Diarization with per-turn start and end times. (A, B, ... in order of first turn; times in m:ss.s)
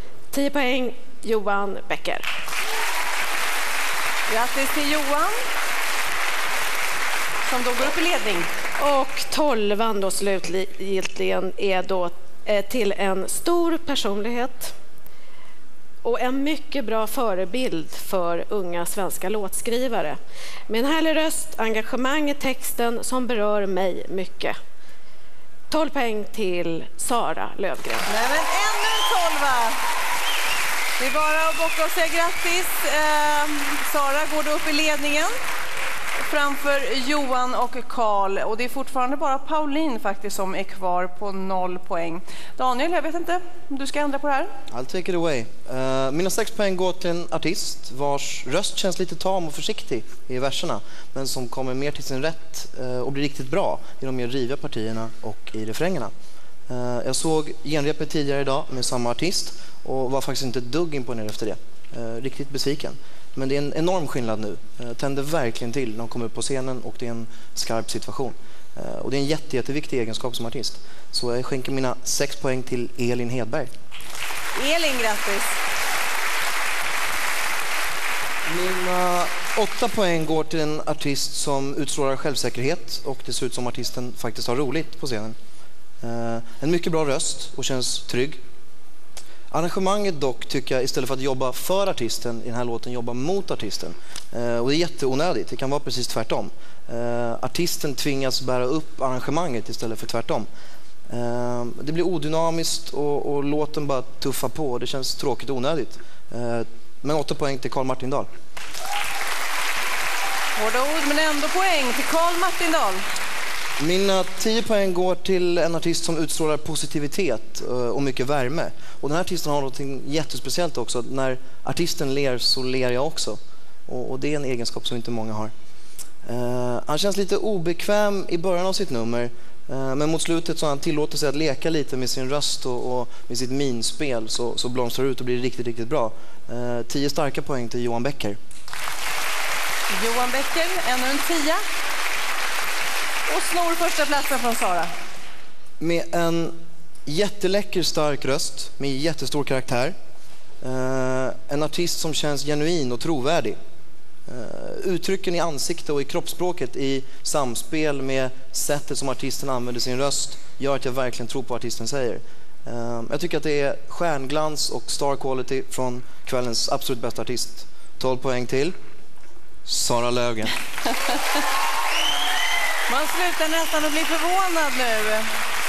0:00.3-0:02.3 A
0:04.3-0:05.4 B
0:07.5-0:08.5 B
0:08.8-0:14.7 A
0:16.0-0:24.6 A
0:25.7-0:28.1 A
0:28.1-0:29.8 B
0:31.0-0:35.4 B
0:36.2-0:44.5 B
0:44.7-0:56.1 C
0:56.7-1:13.7 C
1:14.6-1:15.6 B
1:18.5-1:25.4 C
1:26.0-1:28.4 C
1:29.5-1:40.5 C
1:41.1-1:48.3 C
1:50.6-1:53.0 B
1:53.8-2:05.5 C
2:06.2-2:18.4 C
2:19.9-2:21.6 B
2:23.3-2:24.9 B
2:25.8-2:30.0 C
2:30.6-2:33.6 C
2:34.3-2:48.8 C
2:49.7-2:50.5 C
2:52.9-2:55.3 B